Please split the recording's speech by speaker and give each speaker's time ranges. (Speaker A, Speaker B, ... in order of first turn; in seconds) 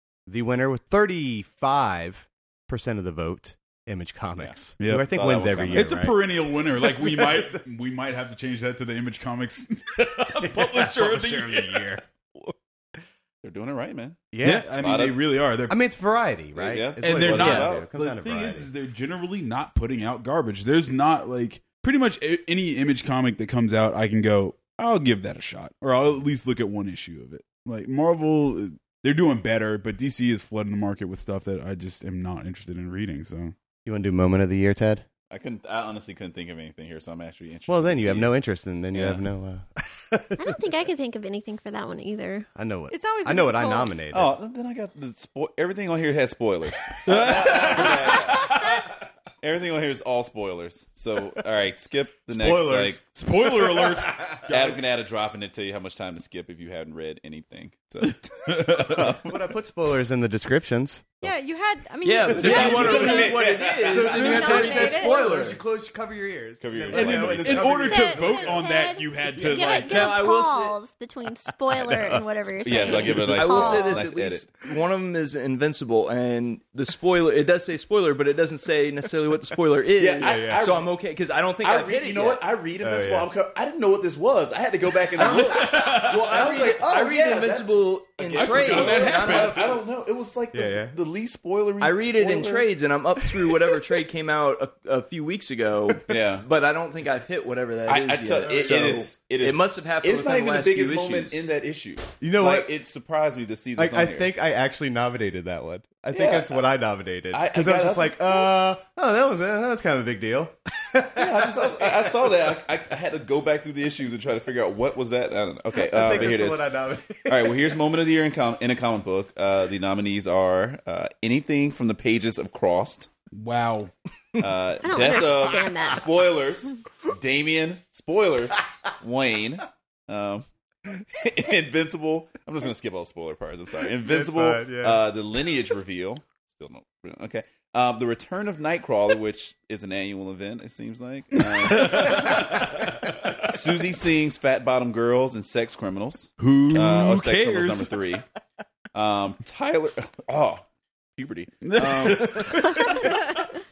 Speaker A: 0.3-6.2, 6.8-7.6, 10.3-12.0, 14.3-14.7, 15.7-18.7, 33.8-35.0, 37.7-40.6, 42.5-44.4, 52.3-53.0, 53.8-54.3, 59.2-61.3, 62.4-63.2, 63.8-68.6, 69.3-69.8, 71.5-72.2, 80.2-80.6, 82.8-83.3, 90.5-91.0, 102.2-102.7, 103.8-112.5, 115.7-117.8, 134.0-135.1, 152.3-152.6
Speaker B: 4.4-6.1, 13.4-15.2, 16.6-17.9, 35.3-38.3, 38.9-39.2, 44.1-48.7, 49.4-53.0, 54.5-59.3, 62.3-65.2, 66.6-67.9, 72.6-74.5, 80.0-80.9, 81.6-92.7, 96.1-96.4, 97.9-104.3, 106.1-106.6, 107.3-108.5, 111.2-116.6, 117.3-123.1, 124.4-142.8, 143.4-148.2, 148.9-150.6, 151.2-153.5
Speaker C: 4.8-5.1, 5.7-12.0, 14.4-15.7, 17.0-33.5, 47.0-48.8, 53.1-54.8, 58.1-59.1, 66.9-70.2, 85.2-86.1, 88.3-89.7, 123.3-123.9, 141.4-143.0, 146.4-147.9, 151.6-152.9
Speaker D: 40.4-42.5, 67.8-74.1, 124.8-126.0
Speaker E: 42.9-43.9, 61.2-65.2
Speaker F: 62.0-65.6, 69.8-70.8, 73.1-82.4, 85.2-89.8, 91.8-101.4